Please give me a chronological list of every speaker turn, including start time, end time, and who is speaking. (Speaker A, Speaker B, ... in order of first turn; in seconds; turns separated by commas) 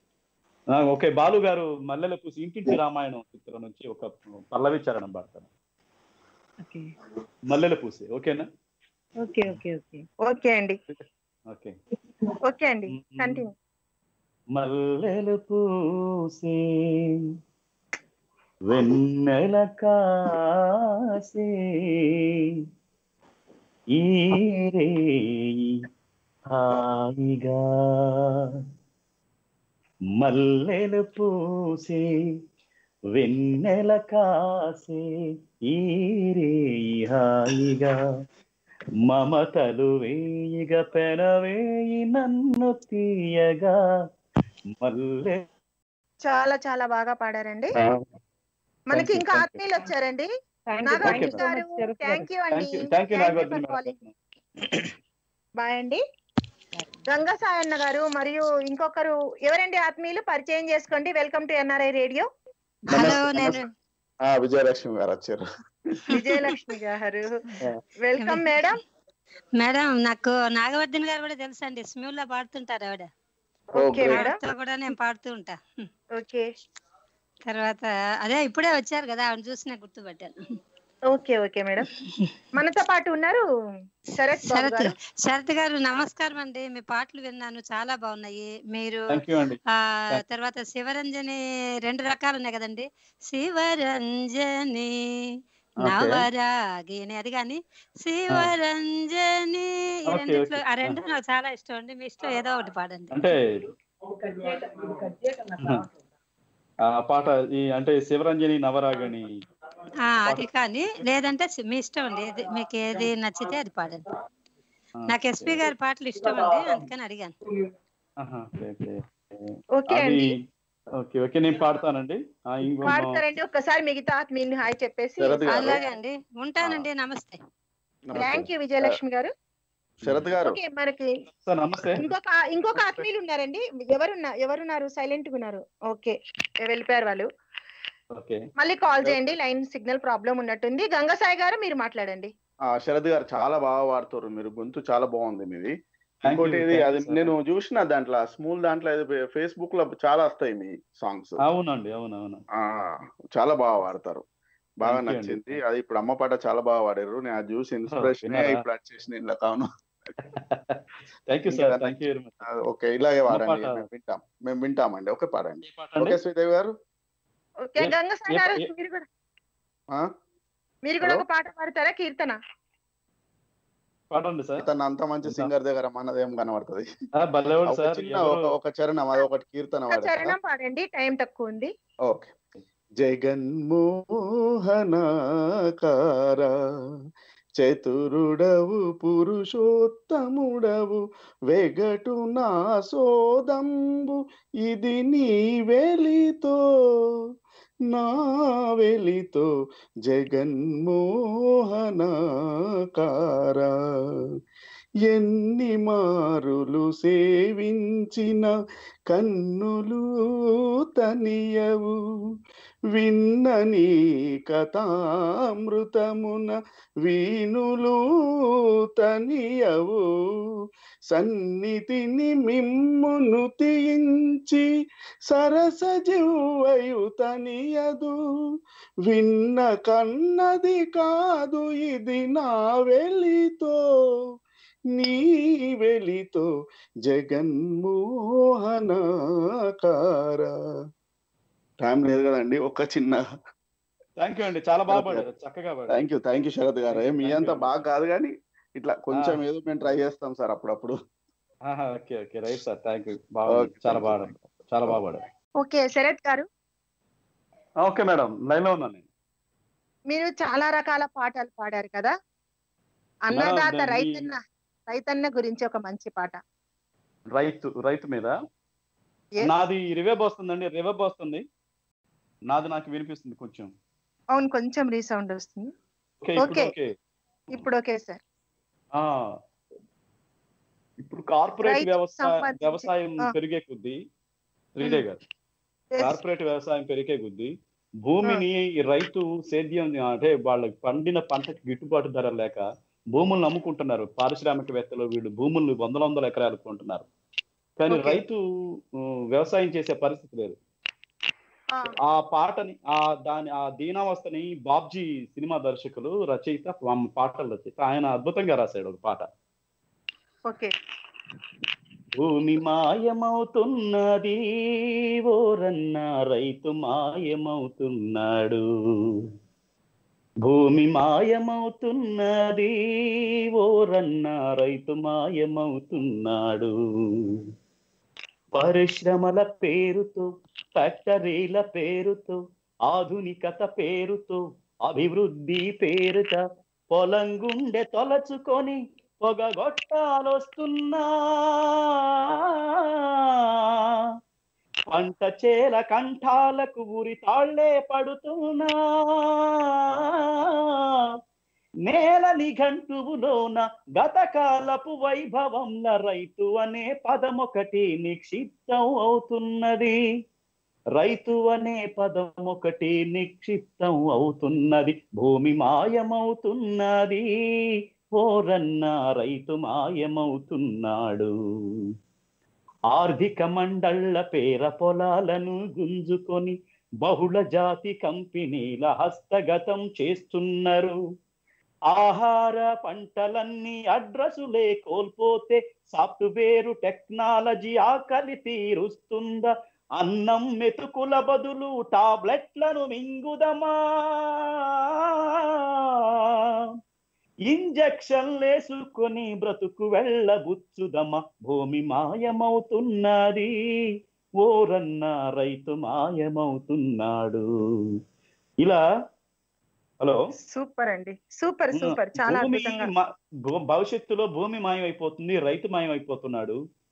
Speaker A: 0.7-5.5, Speaker B: 6.6-6.9, Speaker A: 7.5-8.5, Speaker B: 9.2-10.0, Speaker C: 10.2-10.8, Speaker A: 11.5-11.8, Speaker C: 12.4-13.5, Speaker A: 12.9-13.4, Speaker A: 14.5-15.6, Speaker A: 16.3-16.6, Speaker A: 18.7-20.4, Speaker A: 21.1-21.5, Speaker A: 23.9-25.0, Speaker A: 26.5-28.3, Speaker A: 30.2-32.0, Speaker A: 33.1-35.0, Speaker A: 35.7-37.9, Speaker A: 39.1-43.8, Speaker A: 44.8-45.4, Speaker C: 46.2-47.7, Speaker C: 48.9-50.3, Speaker A: 48.9-49.6, Speaker B: 50.7-52.3, Speaker C: 50.8-54.0, Speaker A: 51.0-51.4, Speaker A: 52.5-54.1, Speaker C: 55.6-56.0, Speaker C: 57.1-62.3, Speaker D: 62.9-63.6, Speaker E: 62.9-63.7, Speaker D: 64.2-65.4, Speaker C: 66.1-67.3, Speaker C: 68.0-68.8, Speaker E: 68.2-68.7, Speaker E: 69.6-73.1, Speaker C: 73.8-74.4, Speaker D: 73.8-74.2, Speaker E: 74.0-75.6, Speaker C: 76.2-76.4, Speaker E: 77.5-80.3, Speaker C: 81.1-81.9, Speaker C: 82.5-83.4, Speaker C: 84.2-84.9, Speaker E: 84.4-89.3, Speaker A: 89.1-89.6, Speaker E: 89.9-94.9, Speaker E: 95.8-103.3, Speaker A: 95.8-96.2, Speaker A: 100.1-101.0, Speaker A: 103.1-103.6, Speaker B: 104.1-105.9, Speaker A: 106.9-109.3, Speaker E: 110.0-114.0, Speaker A: 115.0-115.6, Speaker E: 115.1-117.3, Speaker A: 118.2-120.3, Speaker C: 119.8-120.3, Speaker A: 121.0-123.2, Speaker C: 122.8-125.8, Speaker D: 125.2-125.8, Speaker E: 125.5-127.4, Speaker D: 128.1-128.9, Speaker C: 128.2-129.3, Speaker A: 130.0-130.3, Speaker D: 130.0-130.6, Speaker C: 130.4-131.1, Speaker A: 131.4-132.0, Speaker C: 132.0-137.3, Speaker A: 138.1-138.4, Speaker C: 138.6-142.3, Speaker D: 142.7-151.4, Speaker A: 146.2-147.3, Speaker A: 151.4-152.4, Speaker D: 152.6-154.2, Speaker D: 154.8-159.7, Speaker A: 154.8-155.6, Speaker A: 157.9-158.6, Speaker A: 160.3-162.4, Speaker D: 161.5-161.9, Speaker D: 162.4-166.7, Speaker A: 163.3-163.8, Speaker A: 165.6-166.2, Speaker C: 167.6-169.1, Speaker A: 167.8-168.7, Speaker C: 170.9-172.4, Speaker A: 174.1-174.6, Speaker D: 174.6-176.8, Speaker A: 175.2-175.5, Speaker A: 177.2-178.5, Speaker D: 177.7-180.3, Speaker C: 179.9-181.7, Speaker D: 183.0-183.8, Speaker D: 184.7-185.0, Speaker D: 185.8-186.5, Speaker D: 187.6-191.0, Speaker D: 191.5-196.6, Speaker D: 197.9-199.5, Speaker D: 200.1-201.0, Speaker D: 201.7-202.1, Speaker D: 202.9-203.7, Speaker D: 205.1-208.5, Speaker D: 209.1-210.0, Speaker D: 211.0-211.9, Speaker D: 212.9-213.9, Speaker D: 214.5-214.9, Speaker D: 215.5-216.5, Speaker D: 217.0-218.0, Speaker D: 219.0-220.0, Speaker D: 221.1-224.6, Speaker D: 225.3-228.1, Speaker D: 229.1-233.7, Speaker D: 235.0-236.4, Speaker D: 237.1-238.0, Speaker D: 238.6-239.0, Speaker D: 239.8-240.5, Speaker D: 241.8-243.2, Speaker A: 244.2-246.1, Speaker D: 244.9-245.2, Speaker D: 245.9-250.9, Speaker A: 246.9-247.8, Speaker A: 249.1-249.4, Speaker A: 251.7-255.2, Speaker D: 253.5-254.3, Speaker C: 255.6-256.4, Speaker A: 257.8-259.0, Speaker C: 260.1-262.1, Speaker C: 263.3-264.3, Speaker A: 263.3-264.3, Speaker C: 264.9-266.4, Speaker A: 267.3-268.3, Speaker A: 269.4-271.4, Speaker A: 272.5-273.7, Speaker C: 274.3-275.7, Speaker A: 276.2-276.9, Speaker C: 276.4-276.7, Speaker C: 277.5-278.2, Speaker A: 278.9-279.2, Speaker A: 281.0-284.0, Speaker C: 281.6-283.3, Speaker A: 284.8-285.2, Speaker A: 286.0-297.1, Speaker A: 297.8-298.4, Speaker C: 297.9-298.2, Speaker A: 299.3-300.6, Speaker A: 302.1-309.3, Speaker A: 312.2-314.4, Speaker A: 315.3-318.6, Speaker A: 320.4-322.7, Speaker A: 323.6-326.7, Speaker A: 328.5-330.2, Speaker A: 330.8-336.4, Speaker A: 336.9-341.7, Speaker A: 344.9-349.3, Speaker A: 351.9-359.9, Speaker A: 361.0-367.2, Speaker A: 368.2-371.3, Speaker A: 372.9-380.9, Speaker A: 381.9-394.3, Speaker A: 397.5-403.5, Speaker A: 404.4-407.4, Speaker C: 410.5-412.9, Speaker A: 411.7-416.6